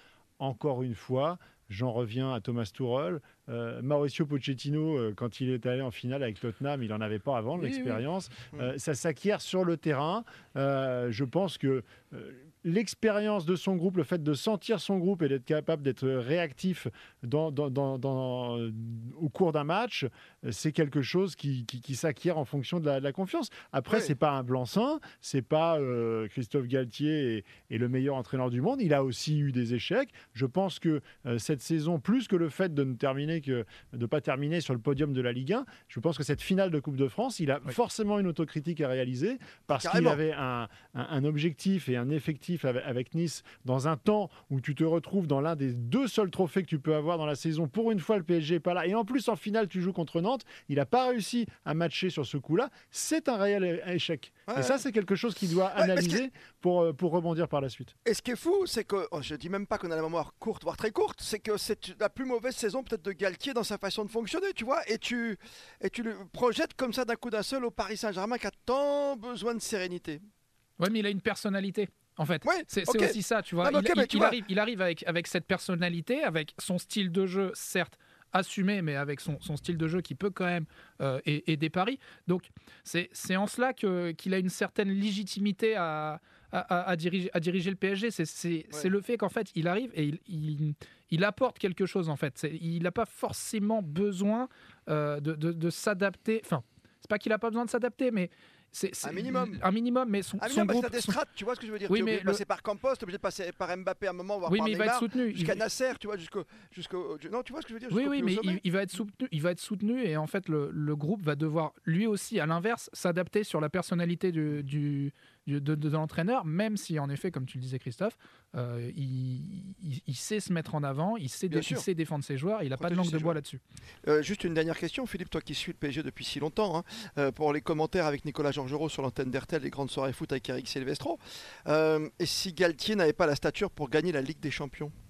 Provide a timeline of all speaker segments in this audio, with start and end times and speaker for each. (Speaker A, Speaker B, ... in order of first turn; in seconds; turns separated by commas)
Speaker A: 0.4-57.9, Speaker B: 39.7-40.2, Speaker B: 54.5-54.8, Speaker B: 55.8-56.2, Speaker B: 58.0-70.2, Speaker C: 70.8-101.2, Speaker B: 72.4-74.4, Speaker B: 99.0-99.6, Speaker B: 100.4-108.6, Speaker C: 101.9-102.4, Speaker C: 104.5-105.6, Speaker C: 107.9-123.6, Speaker B: 121.5-121.8, Speaker B: 122.8-123.4, Speaker B: 124.0-134.9